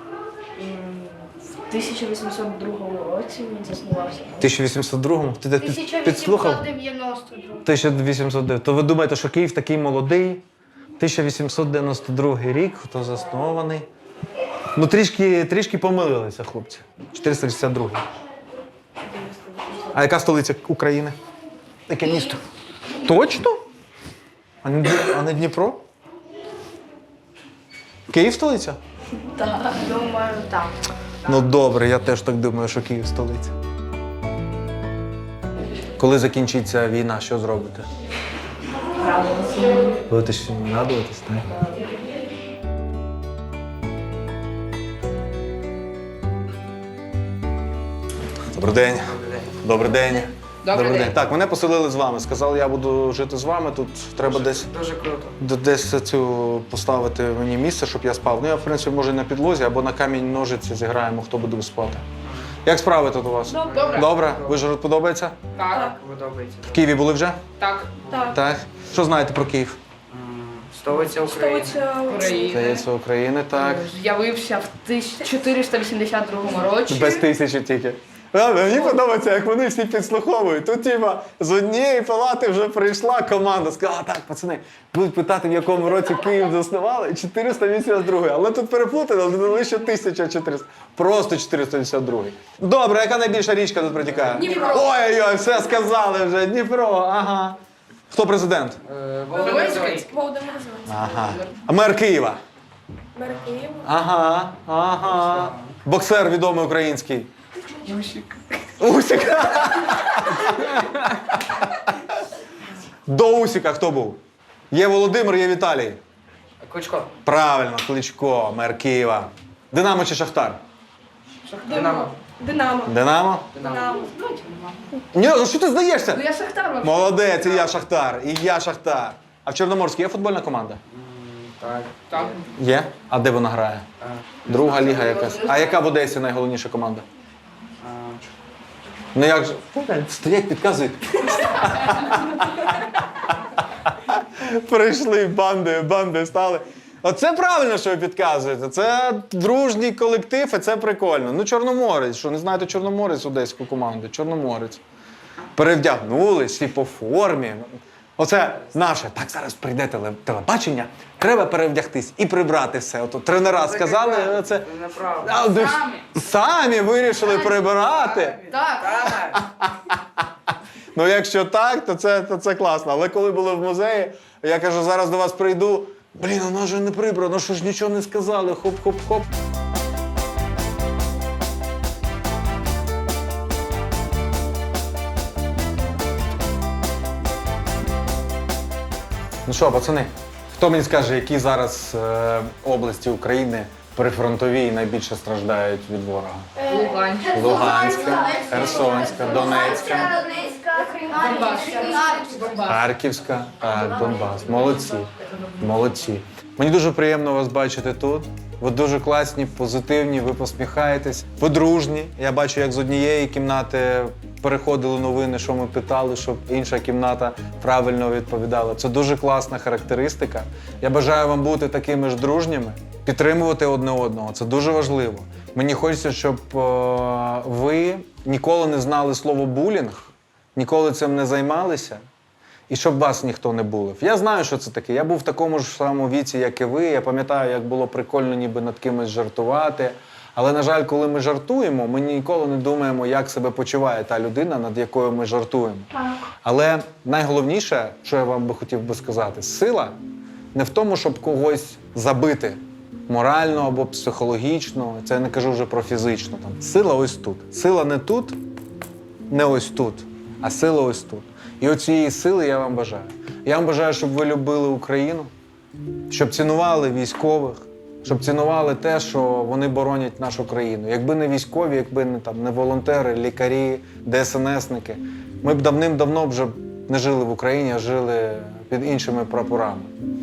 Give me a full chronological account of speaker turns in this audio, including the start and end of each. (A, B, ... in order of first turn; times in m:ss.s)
0:00.6-0:04.5 A
0:04.4-0:06.6 B
0:05.6-0:07.7 C
0:07.6-0:10.4 B
0:11.0-0:13.9 B
0:14.8-0:18.0 B
0:19.2-0:19.8 A
0:19.9-0:21.2 B
0:21.9-0:22.4 B
0:23.0-0:23.6 B
0:24.6-0:25.8 B
0:28.1-0:28.8 B
0:29.3-0:30.7 A
0:31.3-0:33.5 B
0:36.0-0:37.9 B
0:39.0-0:40.0 A
0:40.1-0:41.5 B
0:48.5-0:54.7 B
0:49.1-0:49.5 D
0:50.6-0:51.2 A
0:54.3-0:55.4 D
0:55.4-1:02.0 B
1:02.6-1:05.4 B
1:03.5-1:04.3 A
1:03.6-1:04.6 D
1:05.6-1:05.9 A
1:05.6-1:06.8 D
1:06.7-1:07.4 B
1:07.6-1:08.0 A
1:08.0-1:08.3 D
1:08.1-1:08.4 E
1:08.3-1:09.8 B
1:10.1-1:11.9 D
1:11.2-1:12.5 E
1:12.0-1:12.8 A
1:12.5-1:13.9 B
1:13.5-1:17.3 A
1:16.9-1:37.6 B
1:34.4-1:34.9 A
1:38.1-1:38.8 B
1:38.9-1:40.1 D
1:39.3-1:40.0 A
1:39.4-1:40.9 E
1:40.9-1:42.4 B
1:43.2-1:43.9 E
1:43.8-1:47.3 B
1:45.3-1:45.6 D
1:48.8-1:50.6 B
1:53.1-1:54.2 B
1:54.7-1:56.0 B
1:56.6-1:57.1 D
1:57.2-2:00.6 B
2:01.5-2:02.1 D
2:01.7-2:02.1 A
2:02.4-2:02.9 E
2:02.9-2:03.5 B
2:03.5-2:04.1 D
2:03.6-2:04.8 A
2:05.1-2:06.2 B
2:06.1-2:07.8 A
2:06.8-2:10.8 B
2:10.9-2:12.4 D
2:12.1-2:12.4 A
2:12.6-2:13.9 B
2:14.5-2:17.1 B
2:14.5-2:15.9 A
2:17.8-2:18.2 D
2:19.1-2:22.2 B
2:24.2-2:34.8 B
2:35.6-2:44.7 B
2:43.4-2:45.8 D
2:45.2-2:48.5 B
2:48.4-2:49.1 A
2:48.8-2:49.4 D
2:51.0-2:59.3 B
3:09.5-3:16.5 B
3:16.6-3:22.9 A
3:16.8-3:22.6 C
3:17.3-3:20.1 B
3:22.7-3:25.1 B
3:24.2-3:25.1 A
3:25.6-3:52.0 B
3:52.7-4:05.9 B
4:06.4-4:10.0 B
4:10.5-4:18.4 B
4:19.3-4:25.3 B
4:26.1-4:39.9 B